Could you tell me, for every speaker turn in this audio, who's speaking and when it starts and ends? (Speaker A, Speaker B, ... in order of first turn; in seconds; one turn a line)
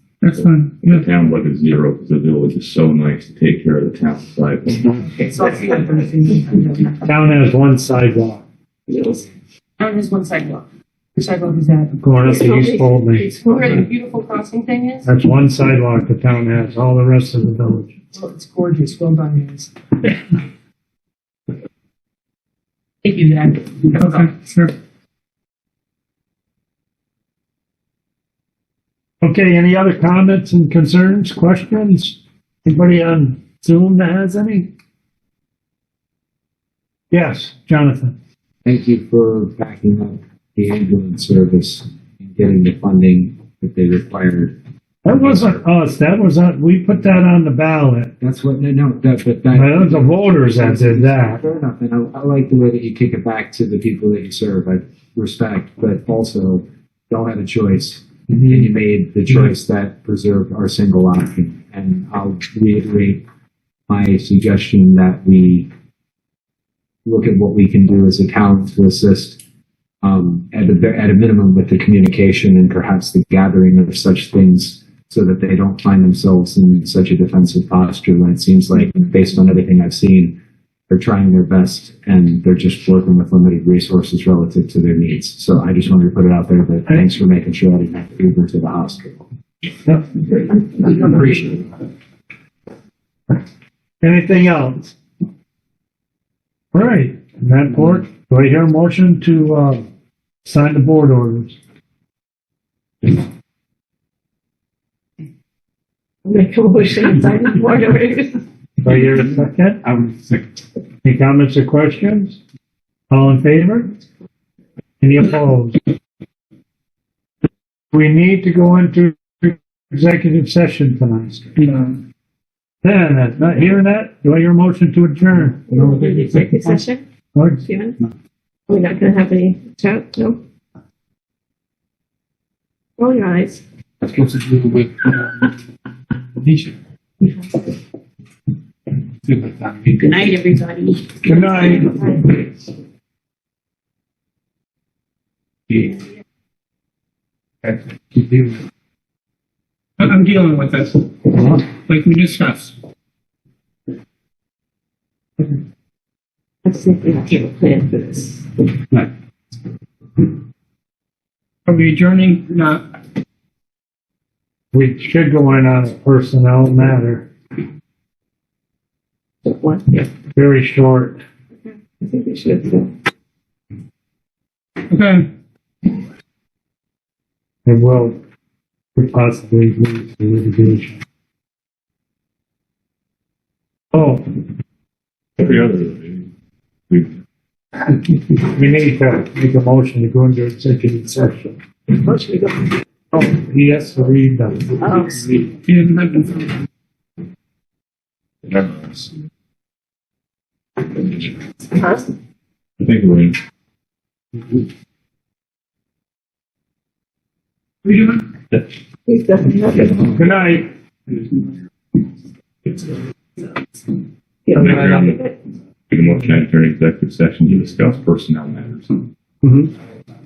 Speaker A: 0.2-1.1
Speaker B: 0.3-4.9
Speaker C: 5.0-7.0
Speaker D: 7.0-8.4
Speaker E: 8.9-9.2
Speaker C: 9.8-12.3
Speaker D: 12.0-13.3
Speaker E: 12.3-12.8
Speaker C: 13.2-15.1
Speaker D: 15.0-17.9
Speaker C: 18.1-19.7
Speaker C: 23.0-24.3
Speaker A: 24.0-24.7
Speaker D: 29.2-34.7
Speaker D: 37.1-38.1
Speaker F: 38.6-44.5
Speaker D: 45.0-48.1
Speaker F: 45.1-45.6
Speaker F: 48.2-63.2
Speaker D: 49.5-51.4
Speaker F: 63.9-65.7
Speaker F: 67.0-69.4
Speaker F: 70.0-80.4
Speaker F: 80.9-89.2
Speaker F: 91.1-91.5
Speaker D: 94.0-95.0
Speaker D: 96.7-99.9
Speaker D: 100.4-101.6
Speaker E: 106.2-108.4
Speaker D: 108.8-109.8
Speaker G: 109.9-110.5
Speaker D: 111.0-112.4
Speaker D: 113.1-114.0
Speaker D: 115.0-115.8
Speaker D: 117.9-121.5
Speaker A: 121.6-122.0
Speaker D: 122.8-126.8
Speaker E: 125.7-127.0
Speaker D: 127.3-127.7
Speaker E: 127.7-127.9
Speaker E: 128.7-130.4
Speaker E: 133.0-133.6
Speaker G: 134.0-135.5
Speaker G: 136.4-136.8
Speaker G: 139.2-140.2
Speaker E: 140.0-142.2
Speaker D: 141.2-141.9
Speaker G: 145.7-146.0
Speaker G: 147.6-148.6
Speaker A: 150.0-152.7
Speaker E: 156.7-158.5
Speaker A: 161.7-162.8
Speaker D: 164.7-167.3
Speaker E: 169.4-170.1
Speaker D: 170.3-171.2
Speaker E: 172.0-172.9
Speaker A: 174.9-175.3
Speaker D: 177.7-178.2
Speaker D: 179.0-181.0
Speaker D: 183.9-184.2
Speaker B: 185.4-186.3
Speaker B: 186.9-187.2
Speaker D: 188.3-191.6
Speaker E: 191.9-192.8
Speaker D: 193.1-194.8
Speaker E: 194.8-195.2
Speaker A: 195.7-196.5
Speaker B: 198.5-199.1
Speaker E: 201.8-202.1
Speaker B: 202.8-203.4
Speaker E: 209.1-210.2
Speaker D: 210.2-210.7
Speaker E: 214.5-215.3
Speaker B: 214.5-215.3
Speaker B: 215.9-219.0
Speaker D: 219.4-219.7